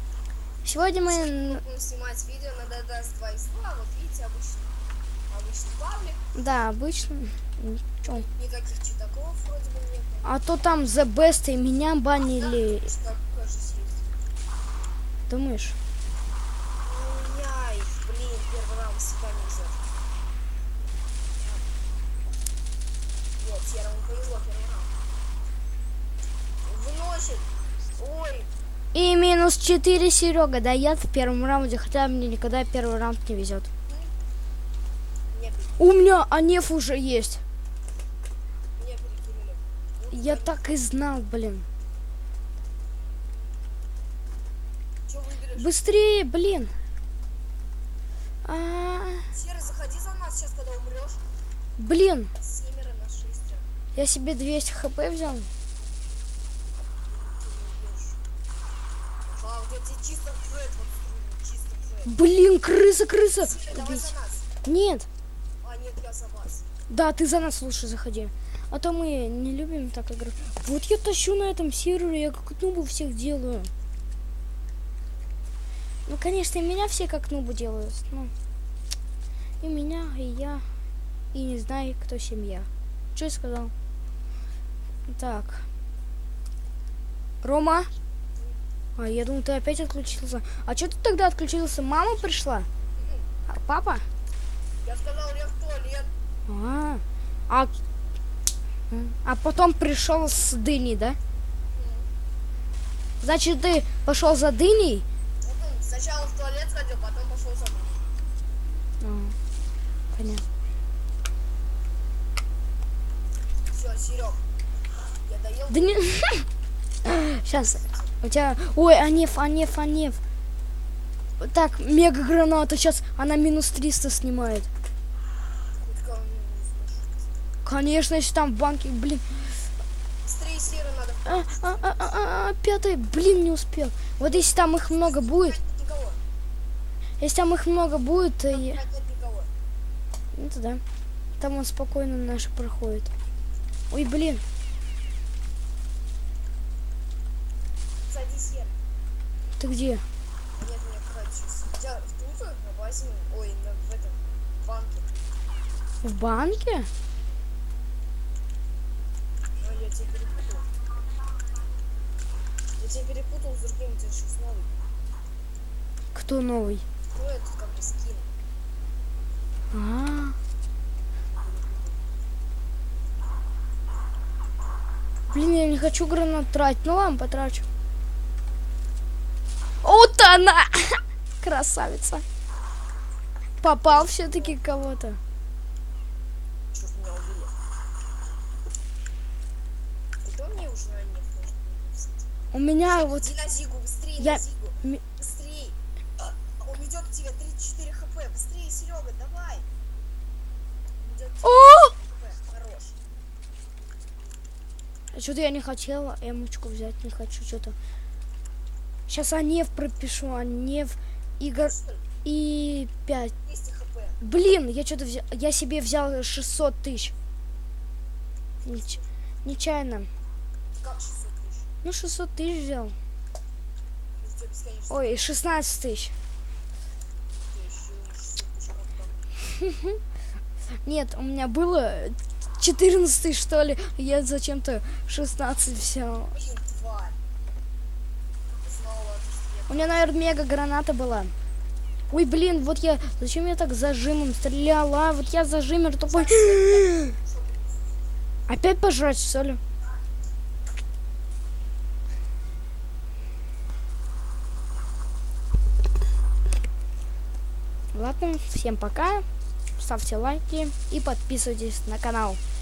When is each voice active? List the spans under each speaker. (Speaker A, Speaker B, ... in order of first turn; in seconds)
Speaker A: 0.7-1.6, 6.3-8.2, 10.2-12.9, 15.3-15.8, 28.9-33.7, 35.8-37.4, 40.1-41.7, 45.6-46.7, 48.5-49.3, 51.8-52.3, 54.0-55.5, 62.0-64.1, 64.6-65.1, 66.9-73.7, 76.1-78.3, 79.6-80.6, 81.3-83.7, 85.1-85.7, 87.4-87.9, 89.0-92.7, 93.5-94.0, 96.5-97.7, 98.9-101.2, 103.2-105.0, 109.0-109.3, 110.1-110.4, 115.7-116.5, 117.0-120.2, 121.4-124.7, 127.7-129.6, 131.3-135.6, 137.2-138.8, 140.3-140.8, 141.4-143.1, 143.9-144.4, 149.6-150.0, 156.0-156.9, 166.1-166.8, 169.7-170.4, 175.3-177.7, 179.8-182.2, 183.6-185.2, 192.5-193.3, 194.2-195.0, 201.4-201.9, 205.1-207.8, 209.1-213.3, 214.2-217.1, 218.7-220.1, 221.8-222.9, 224.9-226.1, 229.6-229.9, 230.8-236.3, 239.7-241.3, 242.1-247.1, 248.5-249.6, 257.9-259.3, 259.8-262.4
Speaker B: 0.8-4.7, 5.3-6.3, 8.0-10.3, 12.3-14.1, 16.8-19.8, 21.4-21.6, 23.4-24.9, 26.6-28.5, 35.3-35.8, 38.8-40.7, 45.1-45.8, 49.3-51.2, 52.4-53.7, 57.1-58.2, 59.3-62.2, 63.4-64.5, 65.6-66.7, 93.0-93.2, 94.8-96.1, 101.7-102.1, 105.4-108.1, 113.7-114.4, 115.2-116.0, 117.5-118.1, 125.8-127.3, 130.2-132.3, 134.2-136.2, 138.5-139.5, 148.1-148.8, 150.6-155.1, 159.6-160.7, 162.8-164.8, 167.1-168.3, 171.2-172.1, 183.8-184.6, 186.7-187.5, 190.2-192.3, 192.8-195.8, 196.6-199.7, 201.0-203.0, 211.6-212.0, 213.4-214.2, 218.7-219.0, 220.8-221.7, 224.2-225.3, 227.4-229.2, 236.3-237.2, 238.5-240.2, 246.1-248.0